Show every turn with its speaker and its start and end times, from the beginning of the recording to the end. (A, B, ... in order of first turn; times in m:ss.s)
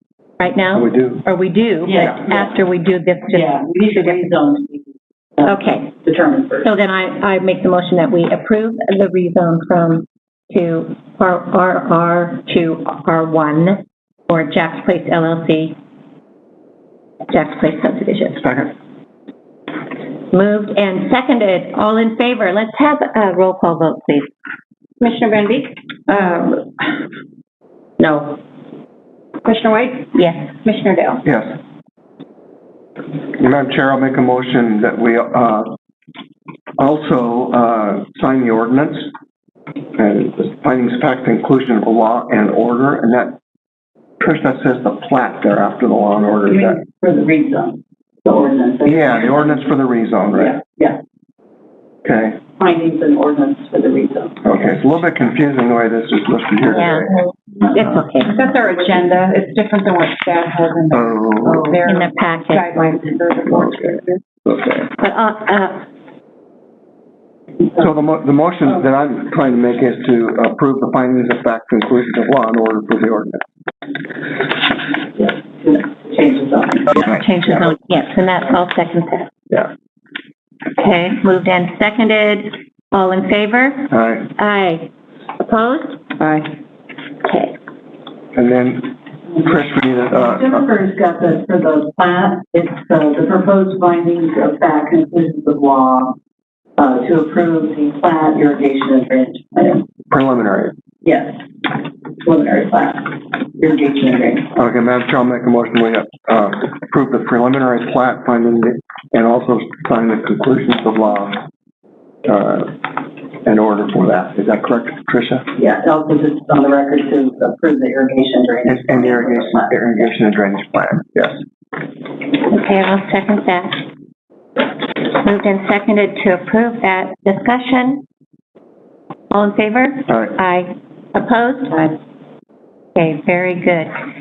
0:00.4-0:04.2 A
0:00.7-0:01.2 B
0:01.8-0:02.6 C
0:03.3-0:06.7 C
0:05.4-0:05.9 A
0:06.6-0:15.8 A
0:17.3-0:18.4 A
0:18.3-0:18.7 B
0:20.3-0:24.3 A
0:25.0-0:26.7 D
0:28.0-0:28.4 D
0:29.4-0:31.2 D
0:30.1-0:30.5 A
0:31.2-0:31.6 B
0:33.4-0:35.7 B
0:36.8-0:39.1 B
0:40.0-0:43.4 B
0:44.2-0:46.8 B
0:46.4-0:49.7 C
0:48.8-0:50.6 B
0:50.3-0:51.0 C
0:52.0-0:52.4 B
0:52.6-0:54.7 C
0:54.4-0:57.2 B
0:56.7-0:57.0 A
0:57.7-0:58.4 A
0:58.2-1:04.2 D
1:00.9-1:01.8 B
1:01.8-1:02.8 A
1:03.5-1:04.9 B
1:05.0-1:05.8 A
1:07.8-1:13.4 B
1:15.2-1:17.2 C
1:17.0-1:19.3 A
1:20.7-1:24.9 A
1:23.9-1:24.3 B
1:25.4-1:26.1 A
1:27.2-1:27.5 A
1:28.3-1:30.7 B
1:30.1-1:36.2 C
1:36.8-1:39.8 C
1:40.1-1:40.8 B
1:41.0-1:44.5 C
1:44.5-1:51.4 B
1:52.2-1:52.8 B
1:53.4-1:55.5 B
1:55.6-2:00.0 C
1:58.7-2:01.4 B
2:02.4-2:03.8 A
2:05.0-2:08.0 A
2:09.3-2:11.9 A
2:12.9-2:13.9 A